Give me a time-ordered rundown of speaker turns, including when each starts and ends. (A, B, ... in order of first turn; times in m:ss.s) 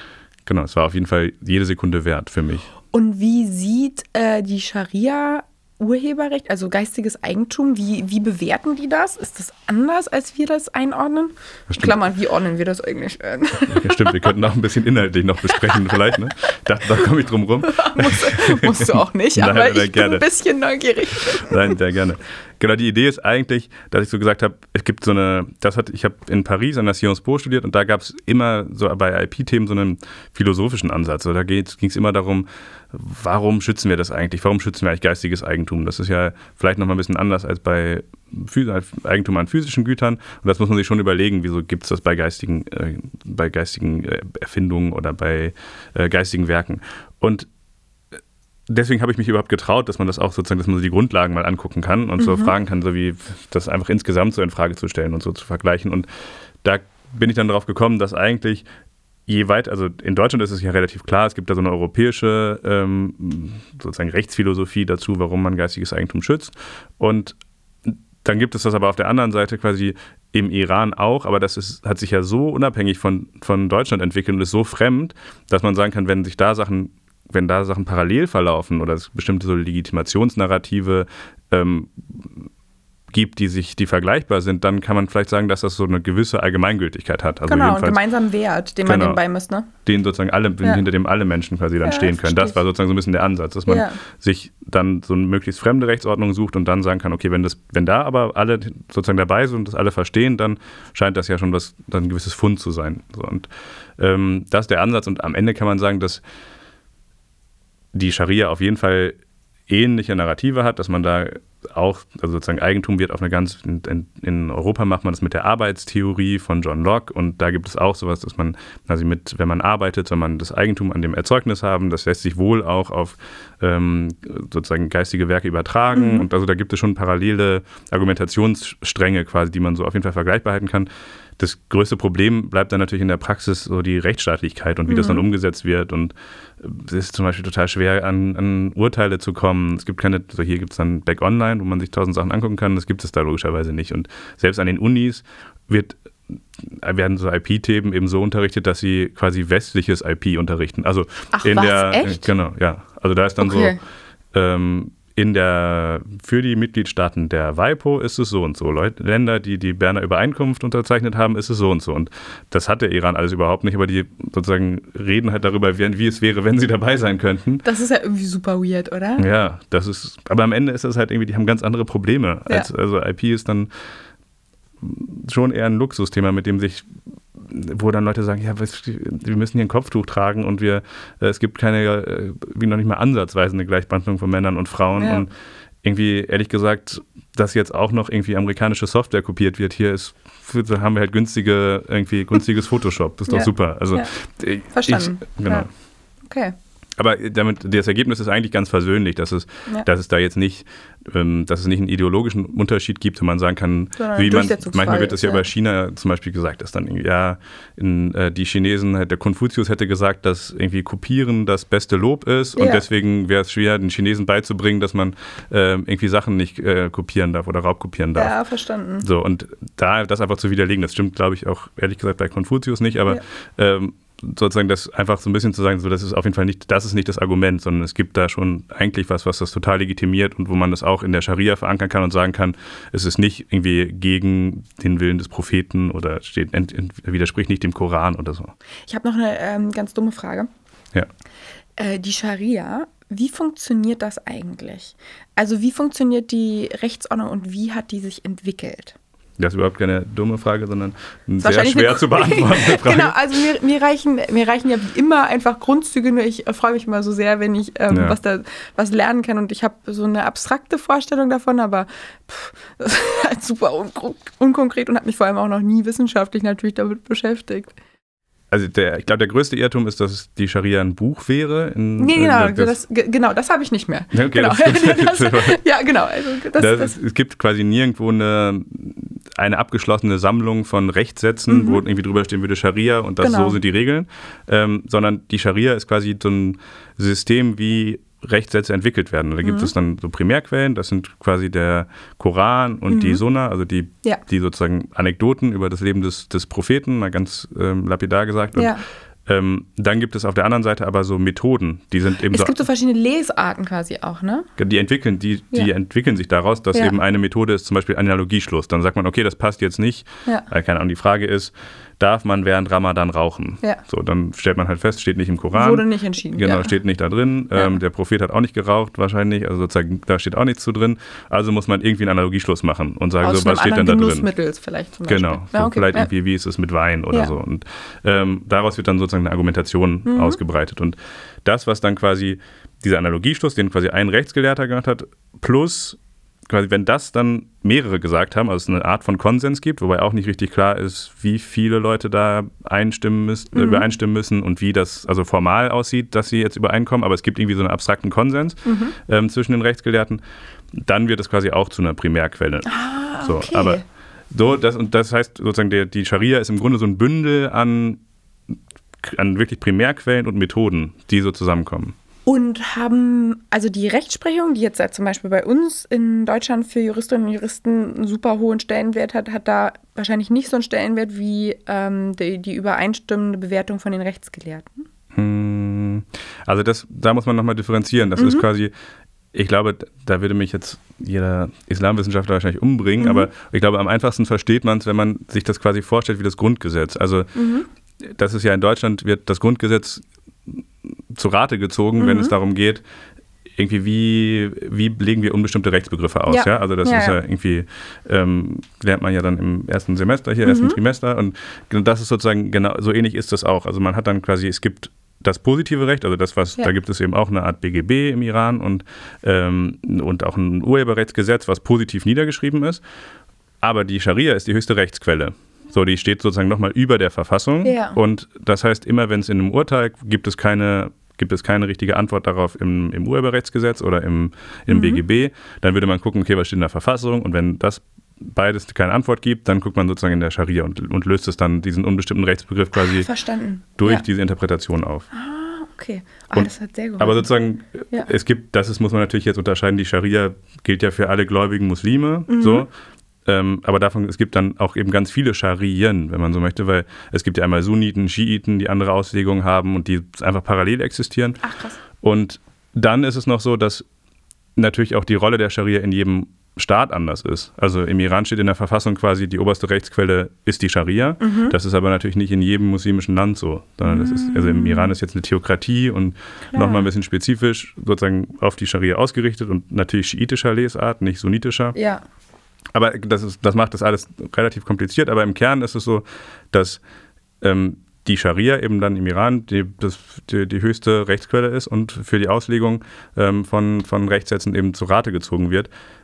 0:00.4-0:02.7 A
0:02.9-0:14.3 B
0:11.7-0:11.9 A
0:13.7-0:20.2 A
0:15.5-0:15.9 B
0:17.7-0:21.8 B
0:21.3-0:47.5 A
0:48.7-0:56.1 A
0:52.2-0:52.5 B
0:56.6-0:58.6 A
0:59.3-1:22.4 A
1:23.1-1:28.0 A
1:27.5-1:29.7 B
1:28.8-1:29.2 A
1:29.8-1:46.2 A
1:31.8-1:32.6 B
1:33.7-1:34.0 B
1:47.9-1:49.2 A
1:49.7-2:33.8 A
2:05.9-2:06.3 B
2:14.9-2:15.2 B
2:31.3-2:32.3 B
2:33.4-2:33.8 B
2:34.3-2:47.6 A
2:47.6-2:49.2 B
2:49.2-2:53.7 A
2:54.8-3:15.7 A
3:05.0-3:05.3 B
3:13.3-3:14.1 B
3:14.7-3:15.7 B
3:16.2-3:16.5 B
3:17.0-3:38.3 A
3:24.0-3:25.4 B
3:32.6-3:32.8 B
3:38.2-3:39.0 B
3:39.0-3:58.5 A
3:58.9-4:00.5 B
4:01.8-4:08.9 B
4:09.4-4:13.2 A
4:11.4-4:27.8 B
4:17.9-4:18.2 A
4:28.5-4:32.8 A
4:32.0-4:37.0 B
4:34.1-4:35.6 A
4:36.6-5:02.6 A
4:41.5-4:41.8 B
4:43.2-4:43.6 B
4:49.4-4:49.7 B
4:52.9-4:53.2 B
4:58.5-4:58.8 B
5:02.3-5:04.5 B
5:04.6-5:24.3 A
5:15.5-5:16.7 B
5:23.2-5:26.1 B
5:25.1-5:36.0 A
5:30.0-5:30.4 B
5:36.5-5:50.2 A
5:43.5-5:43.9 B
5:48.6-5:48.9 B
5:50.7-5:58.0 A
5:52.6-5:53.8 B
5:59.0-6:02.0 A
6:02.2-6:14.9 B
6:15.1-6:18.7 A
6:18.2-6:18.4 B
6:19.3-6:27.3 A
6:23.0-6:23.3 B
6:27.3-6:27.7 B
6:28.0-6:32.8 A
6:32.0-6:32.3 B
6:33.6-6:52.8 A
6:36.3-6:37.2 B
6:40.4-6:40.8 B
6:53.6-7:13.1 A
6:57.6-6:58.0 B
7:04.7-7:05.0 B
7:12.8-7:14.0 B
7:13.8-7:15.0 A
7:15.1-7:17.2 B
7:16.3-7:22.7 A
7:22.3-7:22.6 B
7:23.2-7:31.4 A
7:31.4-7:31.8 B
7:32.0-7:33.8 A
7:34.6-7:51.8 A
7:41.2-7:41.6 B
7:43.8-7:44.9 B
7:46.5-7:46.8 B
7:51.7-7:52.0 B
7:52.7-7:56.8 A
7:57.4-8:05.7 A